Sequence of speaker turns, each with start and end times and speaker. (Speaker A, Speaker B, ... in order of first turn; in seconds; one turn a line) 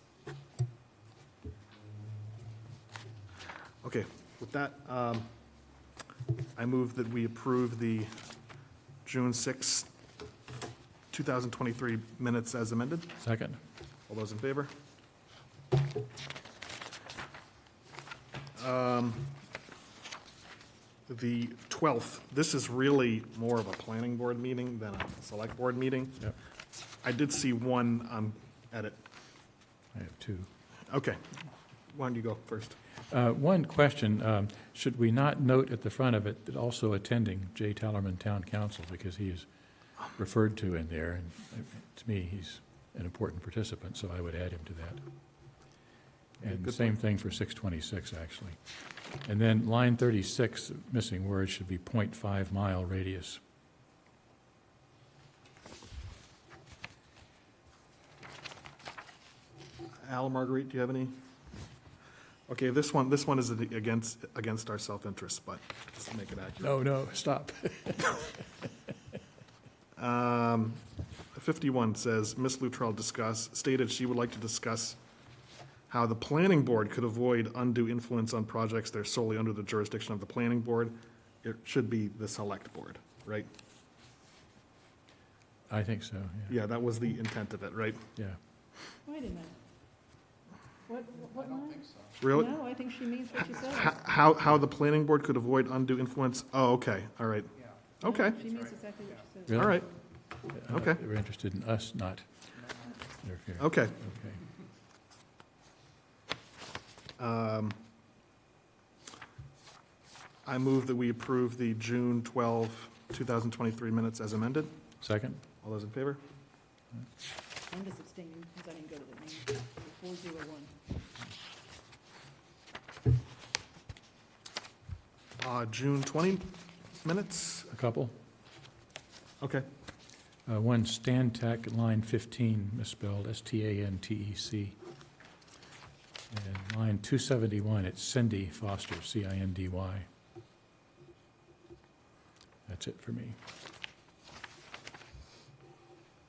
Speaker A: 3.8-5.3
Speaker A: 6.5-8.1
Speaker A: 9.0-9.9
Speaker A: 11.1-13.2
Speaker B: 13.2-13.6
Speaker A: 14.1-14.7
Speaker A: 18.6-19.4
Speaker A: 21.1-26.3
Speaker A: 27.0-29.0
Speaker B: 29.9-30.5
Speaker A: 30.9-31.2
Speaker A: 31.9-32.8
Speaker B: 33.1-39.5
Speaker B: 40.1-45.0
Speaker B: 46.4-48.6
Speaker A: 46.4-47.0
Speaker B: 49.2-53.4
Speaker A: 60.0-61.1
Speaker A: 62.5-66.7
Speaker B: 66.6-68.7
Speaker A: 70.0-70.8
Speaker A: 71.3-75.0
Speaker A: 75.9-83.5
Speaker B: 85.7-86.5
Speaker A: 86.5-88.0
Speaker C: 89.0-89.6
Speaker C: 90.9-94.0
Speaker A: 92.2-92.5
Speaker A: 93.6-98.4
Speaker C: 98.0-99.7
Speaker B: 99.5-99.8
Speaker A: 99.5-99.9
Speaker B: 100.5-102.2
Speaker A: 100.7-101.0
Speaker B: 103.2-104.4
Speaker A: 103.6-104.0
Speaker A: 107.2-107.8
Speaker A: 110.5-114.7
Speaker B: 115.0-115.4
Speaker A: 115.6-116.2
Speaker C: 117.7-120.7
Speaker A: 125.4-127.7
Speaker B: 127.7-128.1
Speaker A: 129.4-129.7
Speaker B: 130.5-134.8
Speaker B: 136.3-140.1
Speaker B: 142.7-143.4